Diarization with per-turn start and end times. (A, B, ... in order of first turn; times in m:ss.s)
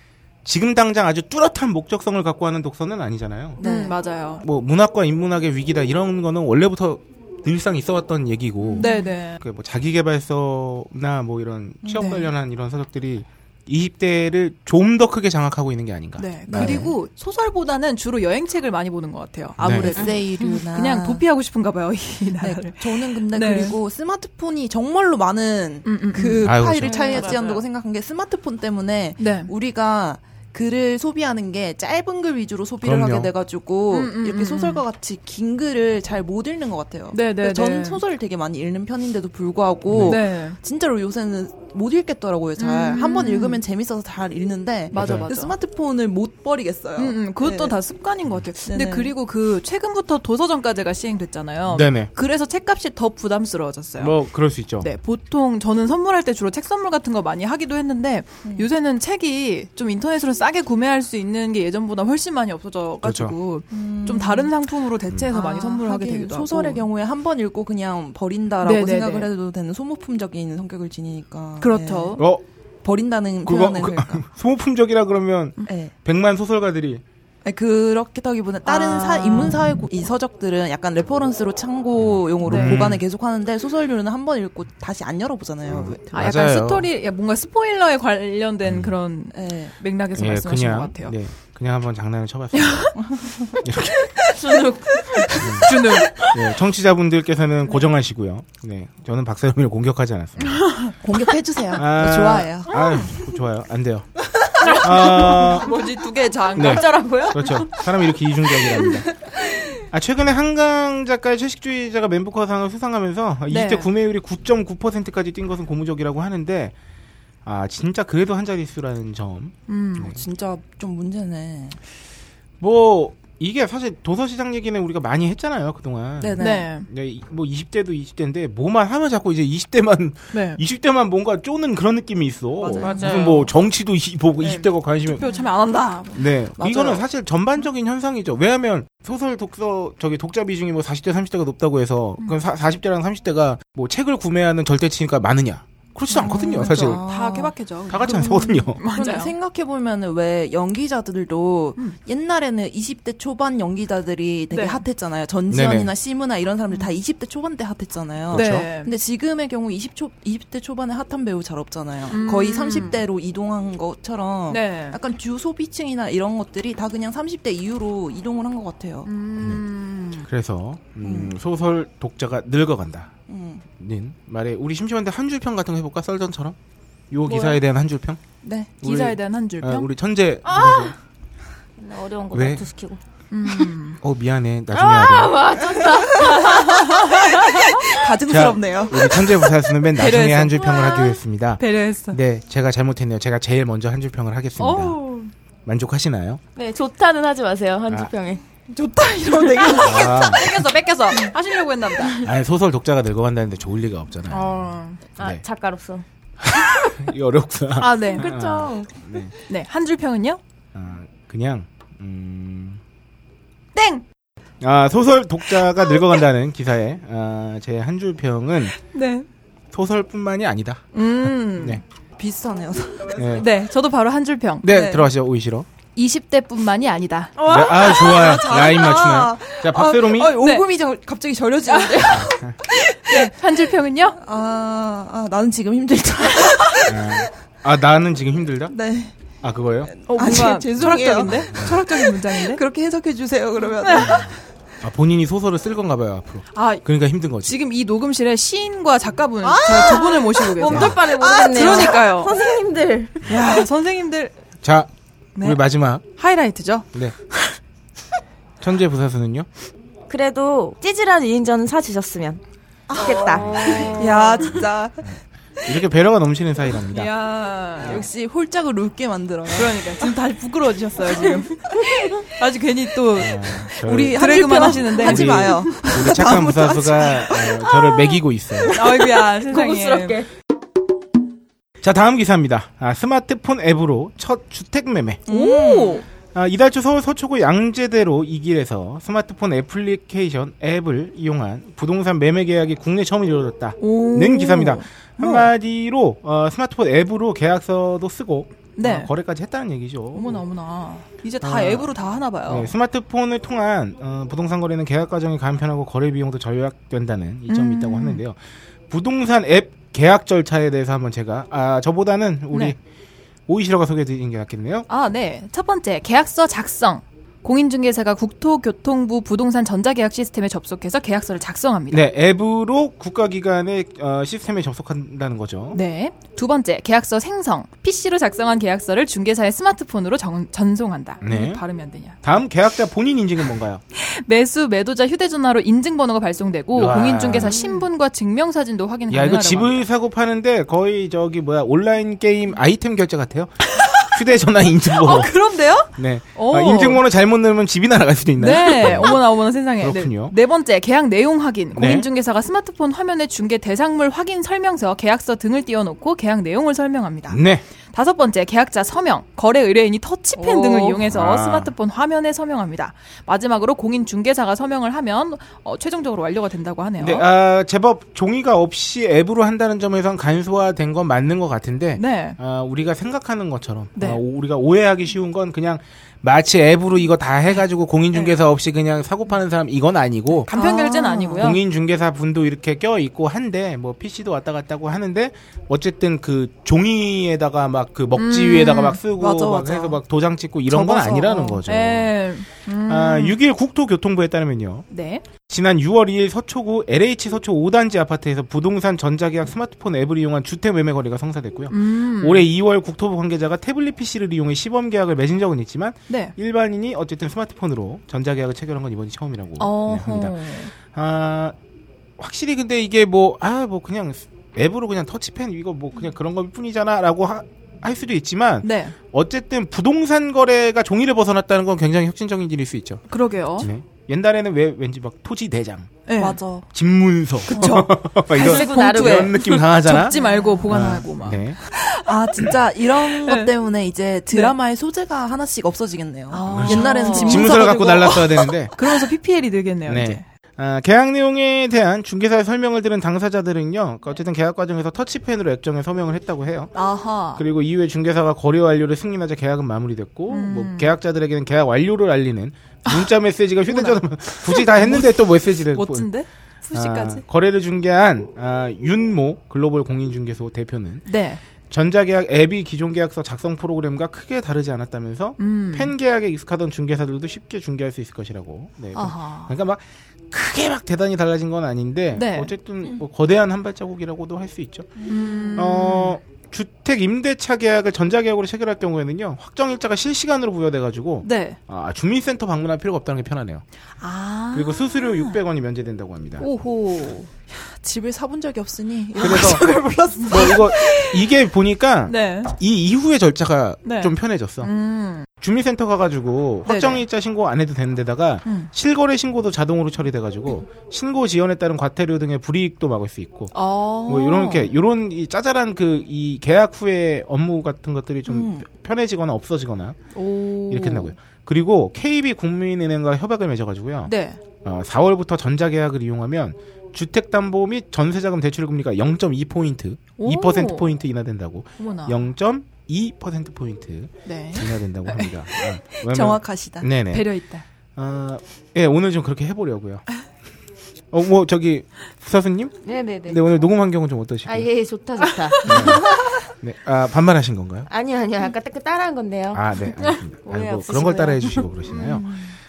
0:00.4-0:03.6 A
0:03.6-0:04.0 B
0:03.6-0:04.4 C
0:04.4-0:08.9 A
0:08.7-0:09.1 B
0:08.8-0:09.4 C
0:09.4-0:16.9 A
0:11.8-0:12.2 B
0:12.0-0:12.2 C
0:16.2-0:23.8 C
0:16.5-0:16.9 B
0:19.6-0:20.0 A
0:19.6-0:21.2 B
0:22.4-0:47.8 B
0:25.8-0:27.6 C
0:26.4-0:27.2 A
0:29.2-0:29.5 C
0:32.8-0:33.3 A
0:33.9-0:34.8 C
0:37.1-0:38.0 C
0:39.9-0:40.2 A
0:40.0-0:40.6 C
0:42.6-0:43.6 C
0:44.9-0:45.5 C
0:44.9-0:45.3 A
0:47.0-0:54.2 C
0:48.6-0:49.1 B
0:51.7-0:52.1 A
0:54.0-0:54.9 A
0:54.8-1:06.8 C
1:03.0-1:03.3 A
1:03.7-1:04.5 B
1:05.3-1:12.2 B
1:08.6-1:09.3 C
1:11.6-1:12.2 C
1:12.2-1:12.4 A
1:12.8-1:14.2 B
1:13.4-1:17.0 A
1:15.6-1:15.9 B
1:17.4-1:26.2 B
1:18.6-1:19.6 C
1:22.0-1:23.0 A
1:22.4-1:22.9 C
1:25.7-1:26.9 A
1:26.1-1:31.2 C
1:28.6-1:28.9 A
1:29.3-1:29.7 B
1:30.2-1:32.9 A
1:32.5-1:36.4 C
1:33.0-1:33.5 B
1:33.6-1:34.1 A
1:34.4-1:35.4 D
1:35.4-1:40.7 A
1:40.6-1:40.9 C
1:41.0-1:42.7 B
1:41.7-1:44.1 A
1:42.7-1:43.2 C
1:44.4-1:45.5 B
1:44.6-1:47.8 C
1:44.6-1:45.8 A
1:46.5-1:49.1 A
1:48.6-1:49.0 C
1:49.9-1:56.7 A
1:53.5-1:53.9 C
1:57.4-2:00.2 A
1:59.7-2:00.1 C
2:00.1-2:01.8 B
2:02.6-2:15.2 A
2:06.2-2:06.7 B
2:06.4-2:06.9 C
2:10.3-2:10.6 C
2:12.6-2:13.3 B
2:12.8-2:13.4 C
2:15.2-2:16.3 C
2:16.1-2:27.0 A
2:16.6-2:17.0 B
2:26.1-2:29.3 C
2:26.1-2:49.1 B
2:27.9-2:28.8 A
2:34.5-2:34.8 C
2:35.5-2:35.9 A
2:38.3-2:38.7 A
2:38.3-2:38.9 C
2:42.1-2:43.0 C
2:44.5-2:45.0 C
2:49.0-2:50.3 C
2:50.2-2:53.1 A
2:51.0-2:51.3 B
2:53.3-2:53.6 B
2:53.8-2:56.6 A
2:57.1-2:58.2 A
2:57.3-2:57.6 C
2:58.4-2:58.7 B
2:58.8-2:59.9 C
2:58.8-3:00.9 A
3:00.4-3:00.9 D
3:01.8-3:03.7 D
3:02.3-3:02.6 A
3:03.3-3:04.0 C
3:04.0-3:05.4 A
3:04.7-3:07.9 D
3:07.8-3:09.3 B
3:08.3-3:15.0 A
3:10.0-3:12.2 C
3:14.6-3:15.3 C
3:15.6-3:16.4 A
3:16.6-3:18.4 D
3:18.7-3:20.3 B
3:18.8-3:22.2 C
3:19.8-3:20.7 A
3:22.2-3:24.6 A
3:24.3-3:25.0 C
3:25.2-3:26.0 D
3:26.4-3:29.3 A
3:27.8-3:28.3 C
3:28.2-3:28.9 D
3:29.5-3:30.4 C
3:30.7-3:32.8 A
3:33.7-3:34.0 C
3:34.6-3:38.8 A
3:38.8-3:39.2 C
3:39.7-3:40.9 A
3:40.9-3:41.8 C
3:41.5-3:41.8 A
3:42.2-3:43.4 B
3:43.2-3:43.5 A
3:43.4-3:45.0 C
3:44.6-3:45.7 A
3:44.7-3:45.0 B
3:46.0-3:47.5 C
3:47.4-3:53.4 B
3:47.4-3:50.4 A
3:50.4-3:50.6 C
3:51.7-3:52.2 C
3:52.0-3:52.5 A
3:52.9-3:54.2 C
3:54.2-3:57.2 B
3:56.9-3:58.7 A
3:58.7-3:59.1 B
3:59.4-3:59.9 A
3:59.9-4:04.3 B
4:00.1-4:02.6 C
4:01.5-4:01.8 A
4:03.8-4:04.2 C
4:04.0-4:07.6 A
4:06.5-4:06.8 C
4:07.4-4:12.4 C
4:09.4-4:12.0 B
4:10.6-4:13.3 D
4:10.7-4:10.9 A
4:13.3-4:14.3 C
4:14.6-4:16.0 A
4:15.4-4:15.6 C
4:16.2-4:16.8 C
4:18.6-4:19.5 A
4:20.1-4:22.4 D
4:22.9-4:25.1 B
4:23.0-4:24.5 D
4:23.4-4:24.3 C
4:23.4-4:23.7 A
4:25.6-4:27.1 A
4:26.9-4:28.1 C
4:27.8-4:30.1 B
4:29.5-4:36.1 C
4:31.0-4:31.4 B
4:33.2-4:38.8 A
4:33.8-4:37.6 B
4:38.7-4:40.2 C
4:38.8-4:40.3 D
4:41.8-4:45.3 A
4:45.3-4:46.0 B
4:45.3-4:46.0 C
4:46.3-5:00.4 A
4:53.8-4:55.5 C
4:58.8-4:59.1 C
5:00.1-5:02.7 C
5:01.4-5:01.9 A
5:02.4-5:08.4 A
5:07.5-5:08.2 C
5:08.9-5:12.8 A
5:13.5-5:14.9 A
5:14.9-5:22.0 C
5:21.9-5:25.8 A
5:25.7-5:32.2 C
5:31.2-5:31.6 A
5:32.2-5:33.8 A
5:33.9-5:39.8 C
5:36.7-5:37.6 A
5:39.1-5:45.3 A
5:43.7-5:44.1 C
5:44.9-5:47.0 C
5:46.0-5:49.2 A
5:48.4-6:07.2 C
5:49.8-5:50.3 A
5:51.7-5:52.1 A
5:57.3-5:57.6 A
6:00.4-6:01.0 B
6:00.8-6:01.7 A
6:07.0-6:20.5 A
6:12.0-6:12.4 C
6:14.0-6:14.2 C
6:20.4-6:21.6 C
6:20.5-6:21.5 B
6:21.4-6:32.1 A
6:28.2-6:29.0 C
6:29.2-6:30.0 B
6:30.7-6:31.6 B
6:31.6-6:33.4 C
6:32.9-6:34.8 A
6:34.9-6:35.2 C
6:35.5-6:51.5 A
6:41.7-6:42.5 C
6:46.1-6:46.3 C
6:49.6-6:50.7 C
6:52.2-7:03.0 A
6:58.6-6:58.9 C
7:03.1-7:03.7 C
7:03.6-7:05.9 A
7:06.1-7:06.4 C
7:06.2-7:06.6 B
7:06.7-7:10.2 A
7:07.5-7:13.5 C
7:08.3-7:09.4 D
7:10.0-7:10.9 B
7:10.7-7:11.6 A
7:12.0-7:18.2 B
7:16.3-7:20.2 C
7:16.4-7:18.7 A
7:19.9-7:26.7 A
7:26.7-7:27.4 C
7:27.3-7:36.1 A
7:30.3-7:30.9 C
7:33.7-7:37.2 C
7:36.7-7:41.1 A
7:41.1-7:41.4 C
7:41.7-8:03.6 A
7:45.4-7:45.9 C
7:48.9-7:49.5 C
7:52.1-7:52.5 C
7:55.0-7:55.6 B
7:55.1-7:56.2 C
8:01.2-8:01.6 C
8:04.0-8:05.4 C
8:04.5-8:06.4 A
8:06.4-8:07.3 C
8:07.5-8:11.1 B
8:09.2-8:09.6 A
8:10.3-8:14.7 A
8:12.1-8:12.5 C
8:13.8-8:15.3 C
8:15.4-8:23.5 A
8:16.6-8:17.0 C
8:23.5-8:24.7 C
8:24.0-8:30.0 A
8:28.3-8:28.6 B
8:30.1-8:31.1 C
8:30.7-8:34.1 A
8:34.0-8:34.4 C
8:34.6-8:47.3 A
8:40.2-8:40.9 C
8:41.8-8:42.2 C
8:44.2-8:45.6 C
8:46.1-8:46.9 B
8:47.1-8:47.6 C
8:48.0-8:50.0 A
8:51.1-8:54.7 A
8:52.8-8:53.4 D
8:54.4-8:56.4 D
8:55.6-8:57.9 A
8:57.9-8:59.6 D
8:59.5-9:02.4 A
9:00.4-9:01.7 D